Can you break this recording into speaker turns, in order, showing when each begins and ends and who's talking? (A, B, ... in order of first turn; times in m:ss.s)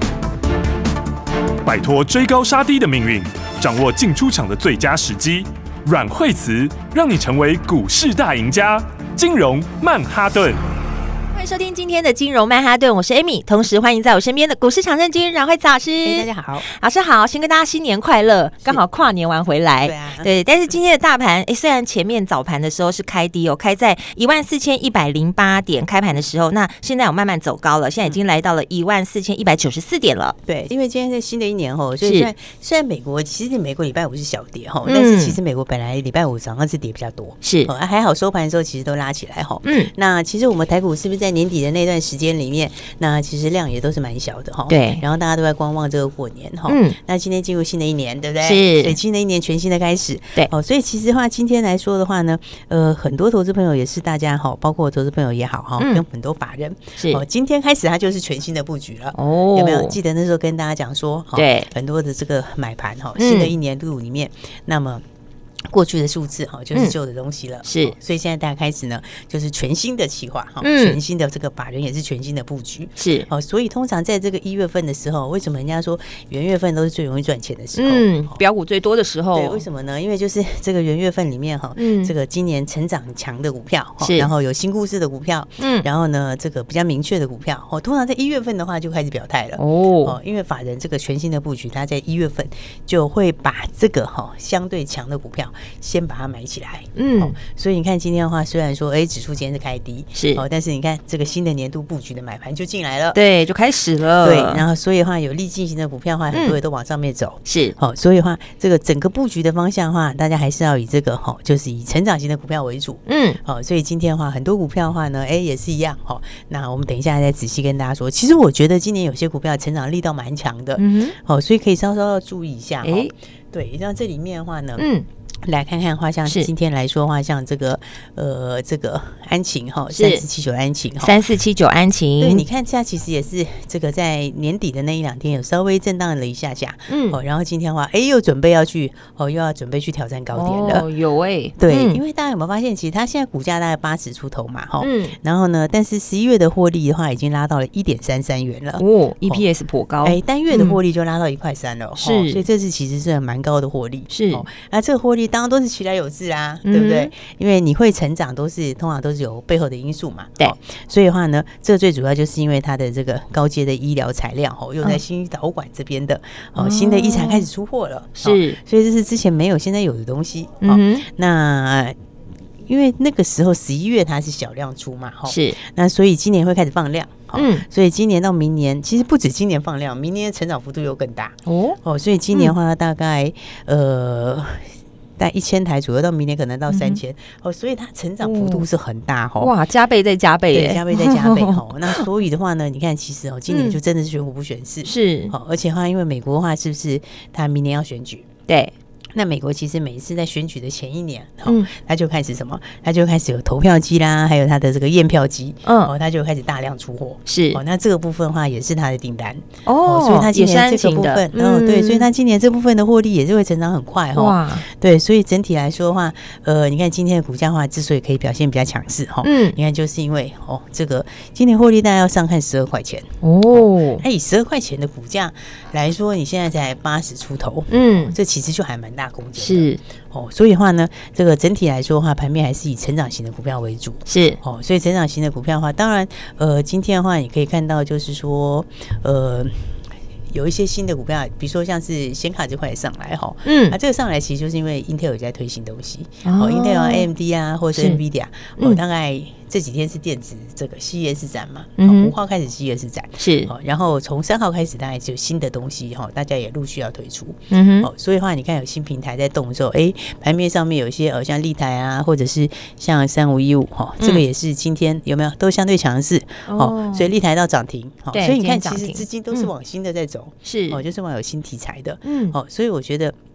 0:01.6-0:10.6 A
0:11.3-0:30.4 B
0:16.0-0:16.7 C
0:19.8-0:20.3 C
0:30.5-1:05.0 C
0:32.0-0:32.3 B
0:34.8-0:35.4 B
0:37.4-0:37.7 B
0:39.6-0:39.9 B
0:44.7-0:45.0 B
0:46.7-0:47.0 B
0:48.4-0:49.0 B
0:55.8-0:56.0 B
0:59.2-1:00.0 B
1:01.4-1:01.7 B
1:03.2-1:03.5 B
1:05.7-1:18.3 C
1:07.7-1:08.0 B
1:10.6-1:11.0 B
1:13.0-1:13.3 B
1:17.8-1:19.6 B
1:19.3-1:43.2 C
1:21.8-1:22.1 B
1:24.0-1:24.3 B
1:25.6-1:25.9 B
1:29.6-1:30.2 B
1:37.0-1:37.4 B
1:40.2-1:40.4 B
1:43.1-1:44.6 B
1:44.2-2:04.9 C
1:46.3-1:46.6 B
1:47.5-1:47.8 B
1:53.1-1:53.4 B
2:00.8-2:01.2 B
2:02.8-2:03.1 B
2:04.8-2:05.0 B
2:05.4-2:11.2 C
2:09.9-2:10.2 B
2:11.0-2:12.4 B
2:12.2-2:20.9 C
2:16.9-2:17.2 B
2:20.3-2:22.0 B
2:21.6-2:29.4 C
2:24.8-2:25.2 B
2:28.8-2:30.8 B
2:30.0-2:52.0 C
2:32.0-2:32.4 B
2:34.1-2:34.5 B
2:36.6-2:37.1 B
2:46.6-2:47.5 B
2:48.2-2:48.6 B
2:50.6-2:51.1 B
2:52.6-3:09.5 C
2:55.3-2:55.6 B
2:57.3-2:57.6 B
3:01.5-3:01.8 B
3:06.7-3:07.0 B
3:08.2-3:08.7 B
3:09.4-3:12.0 B
3:10.5-3:18.3 C
3:13.5-3:13.8 B
3:14.8-3:15.3 B
3:18.5-3:18.7 B
3:19.2-3:59.8 C
3:25.7-3:25.9 B
3:27.3-3:27.6 B
3:29.7-3:32.1 B
3:34.2-3:34.6 B
3:39.2-3:39.6 B
3:43.2-3:44.0 B
3:47.7-3:48.2 B
3:49.4-3:49.8 B
3:54.1-3:54.4 B
4:00.3-4:33.2 C
4:03.4-4:03.8 B
4:06.2-4:07.1 B
4:07.8-4:08.0 B
4:11.8-4:12.1 B
4:13.2-4:13.5 B
4:17.5-4:17.9 B
4:24.0-4:24.2 B
4:26.5-4:27.1 B
4:28.1-4:29.5 B
4:30.4-4:30.8 B
4:32.1-4:32.4 B